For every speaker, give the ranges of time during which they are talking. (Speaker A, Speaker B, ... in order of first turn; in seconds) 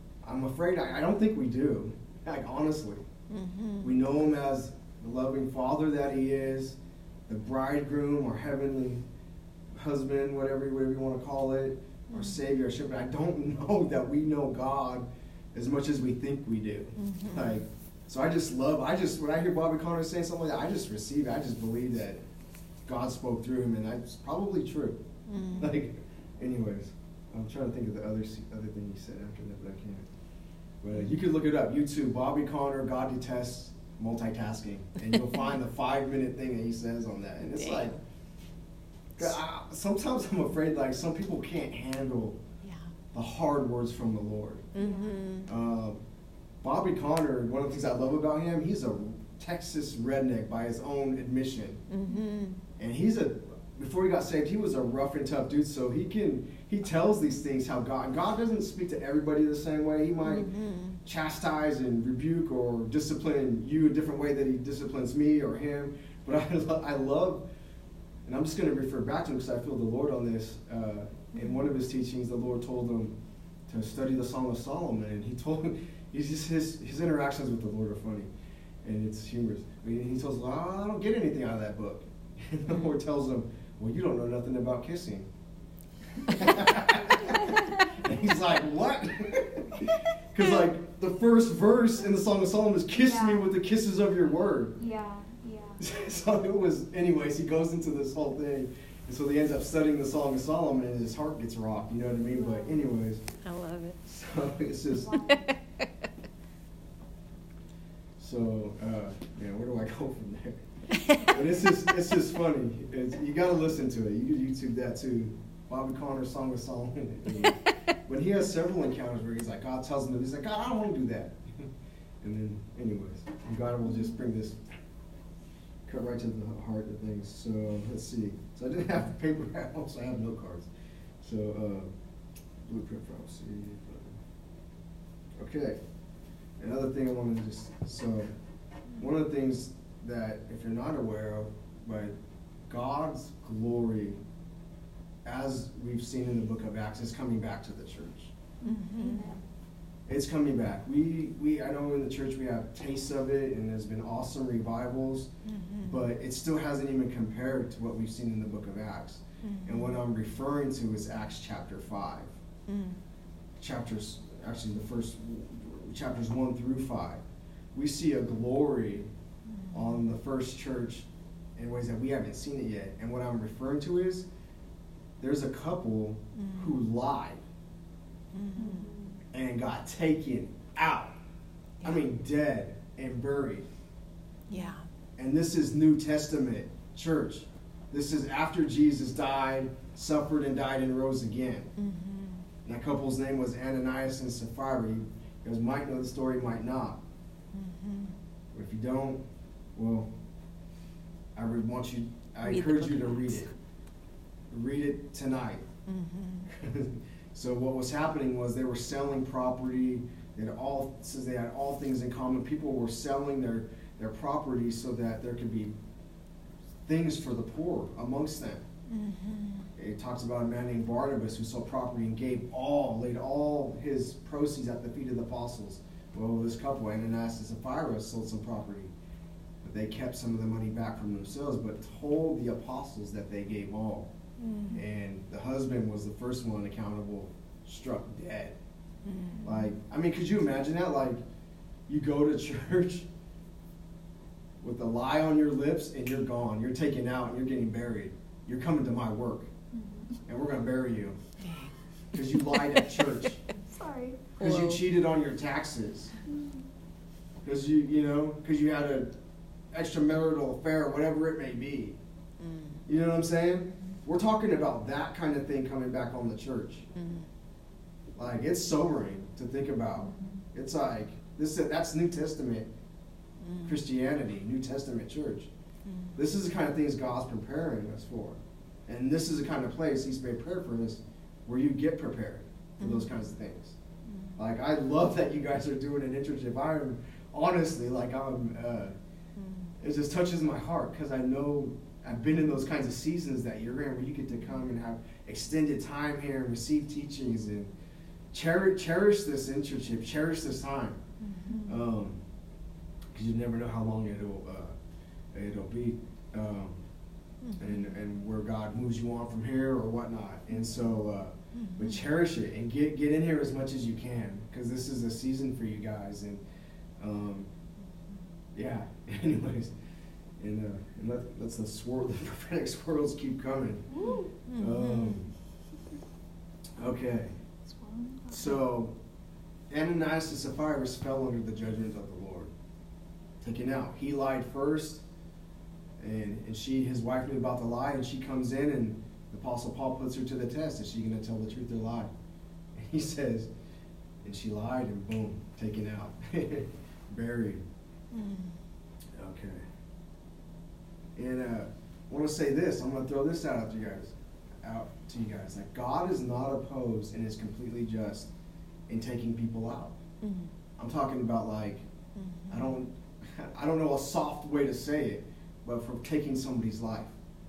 Speaker A: 0.2-3.0, 3.8-6.8, 7.3-9.0, 9.7-22.2, 22.9-25.0, 25.6-30.1, 30.8-38.0, 39.2-42.4, 43.1-44.7, 45.5-46.0, 46.6-51.8, 52.8-60.5, 61.0-67.5, 68.2-73.1, 73.7-78.3, 78.8-85.3, 86.2-94.8, 95.8-103.2, 104.0-105.1, 108.2-121.7, 122.2-124.6, 125.8-130.7, 131.2-131.9, 132.6-134.1, 135.4-135.8, 136.6-138.3, 139.0-142.1, 142.7-144.2, 145.2-148.3, 150.1-162.3, 163.6-167.2, 167.7-169.1, 169.7-174.3, 175.2-177.4, 179.3-181.1, 181.8-183.7, 185.2-191.7, 192.6-197.0, 198.5-199.2, 199.8-200.1, 201.3-203.5, 204.5-205.7, 206.5-215.7, 216.9-218.6, 219.8-228.9, 229.6-234.1, 234.7-238.6, 239.4-241.2, 241.9-243.1, 244.6-249.5, 250.2-251.2, 252.1-253.4, 254.4-256.1, 257.4-259.1, 259.7-262.0, 262.9-266.9, 268.1-272.7, 273.6-275.5, 276.1-283.8, 284.4-288.9, 289.8-297.7, 298.3-301.0, 301.6-302.2, 303.1-304.7, 305.3-306.8, 307.6-316.4, 317.0-317.5, 318.5-319.7, 320.4-324.0, 324.6-325.3, 326.8-327.3, 328.3-328.9, 329.7-332.5, 333.4-335.0, 336.0-342.1, 342.7-343.5, 344.2-347.6, 349.2-349.6, 351.2-358.3, 358.9-360.0, 360.8-361.8, 362.5-367.1
Speaker B: 3.3-3.9, 12.1-12.3, 17.0-17.5, 25.3-25.7, 37.4-38.0, 44.7-45.5, 51.9-52.6, 60.2-61.0, 71.3-71.7, 103.4-104.0, 105.2-105.9, 148.6-149.4, 155.4-156.1, 159.4-160.0, 162.7-163.0, 169.5-170.0, 176.3-176.8, 178.3-178.9, 184.5-184.9, 191.8-192.4, 197.5-198.2, 202.4-203.5, 205.8-206.5, 218.9-219.7, 234.4-234.8, 239.0-239.7, 251.4-251.7, 252.2-253.1, 254.4-254.8, 262.4-262.8, 266.9-267.3, 273.4-273.8, 275.8-276.1, 282.8-283.1, 289.4-289.7, 301.2-301.6, 307.4-307.8, 311.5-311.9, 324.5-325.2, 348.1-348.6, 360.2-360.5, 362.2-362.7
Speaker C: 44.7-45.2, 92.9-93.4, 94.7-95.9, 102.2-102.8, 104.9-105.5, 148.6-149.4, 178.6-179.2, 249.7-250.2, 253.7-254.2, 256.3-256.6, 323.9-324.3, 327.6-328.6